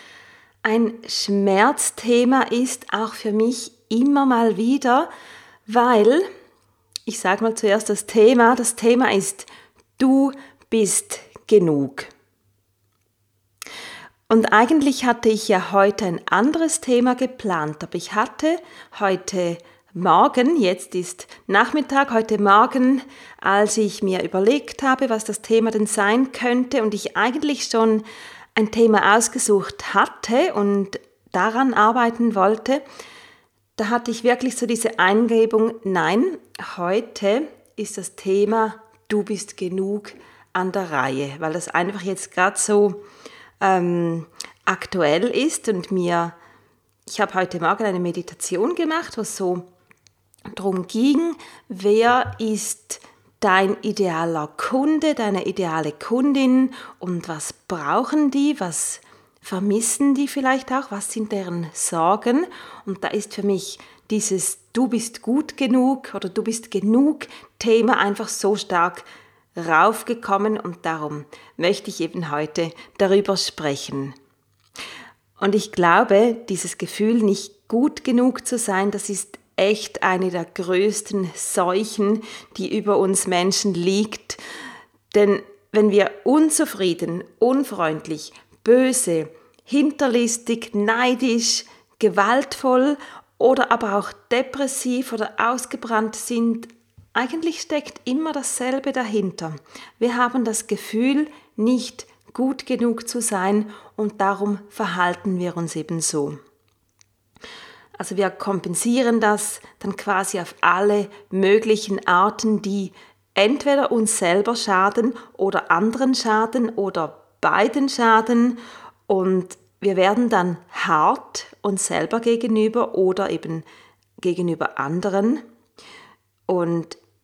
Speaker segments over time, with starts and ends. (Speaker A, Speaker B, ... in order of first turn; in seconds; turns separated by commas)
Speaker A: 0.6-5.1, Speaker A: 5.7-6.3, Speaker A: 7.1-12.1, Speaker A: 14.3-32.8, Speaker A: 33.8-43.0, Speaker A: 43.6-46.4, Speaker A: 47.1-49.7, Speaker A: 50.5-69.0, Speaker A: 69.6-74.2, Speaker A: 75.4-84.4, Speaker A: 85.1-106.4, Speaker A: 108.0-123.7, Speaker A: 124.2-125.4, Speaker A: 126.5-127.0